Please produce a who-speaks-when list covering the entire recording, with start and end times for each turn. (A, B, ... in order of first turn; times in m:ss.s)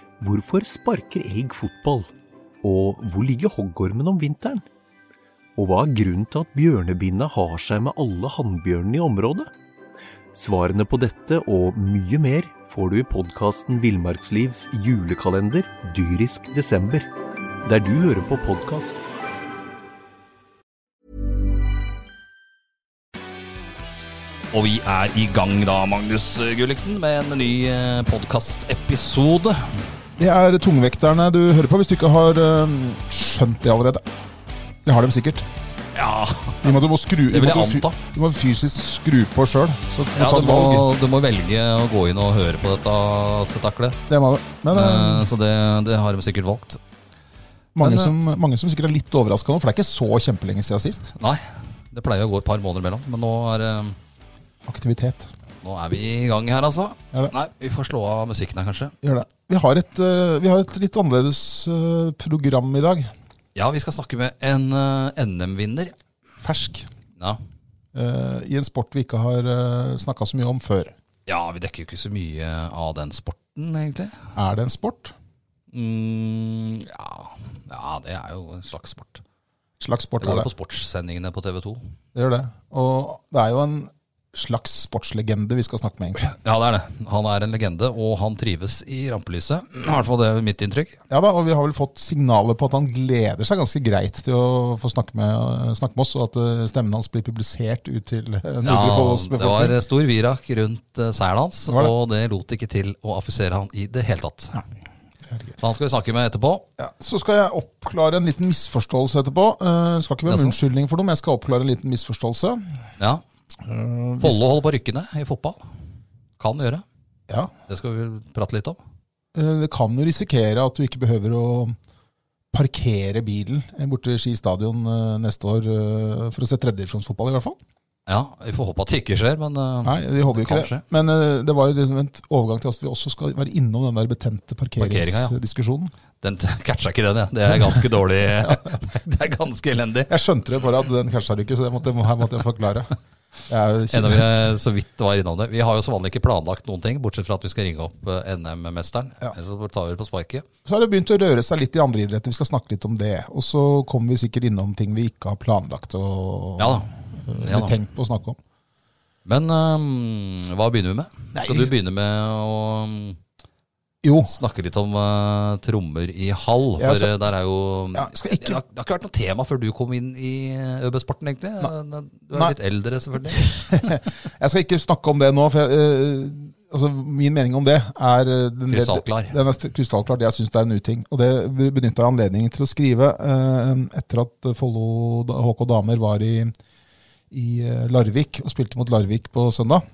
0:00.2-0:02.1 A
0:02.6-0:04.7 A
0:05.6-0:09.5 A
0:10.3-0:17.1 A
0:17.6-0:19.1 A
0:24.5-0:29.8 B
0:30.2-0:34.0 C
0:34.8-0:35.5 C
0:36.0-0:36.8 B
0:36.6-0:40.9 C
0:37.3-0:38.0 B
0:40.2-0:44.0 B
0:44.1-0:45.3 C
0:44.7-0:46.8 B
0:47.8-0:51.2 C
0:47.8-0:48.1 B
0:51.2-0:54.0 B
0:54.7-0:55.3 C
0:55.6-0:59.0 B
0:59.0-1:03.1 C
1:03.6-1:06.0 B
1:06.4-1:06.9 C
1:07.9-1:10.9 C
1:11.3-1:14.2 B
1:14.3-1:15.1 C
1:15.7-1:19.2 B
1:19.8-1:20.5 C
1:20.2-1:21.8 B
1:22.1-1:26.2 C
1:26.2-1:31.0 B
1:31.1-1:39.8 C
1:38.6-1:44.6 B
1:45.3-1:45.6 C
1:45.6-1:46.6 B
1:46.8-1:52.8 C
1:50.3-1:50.6 B
1:53.6-1:54.4 C
1:54.2-1:55.6 B
1:56.4-1:56.8 B
1:57.7-1:58.8 B
1:59.3-2:01.8 C
2:02.5-2:07.6 C
2:08.1-2:10.8 B
2:09.8-2:15.9 C
2:14.8-2:15.3 B
2:16.2-2:20.1 B
2:20.1-2:22.9 C
2:23.5-2:24.3 C
2:23.9-2:30.4 B
2:30.7-2:38.4 C
2:36.6-2:37.8 B
2:39.2-2:43.2 B
2:41.3-2:41.7 C
2:44.0-2:44.4 C
2:44.3-2:53.9 B
2:46.8-2:47.1 C
2:47.9-2:48.6 C
2:53.4-3:06.5 C
2:58.7-2:59.3 B
3:07.3-3:09.8 C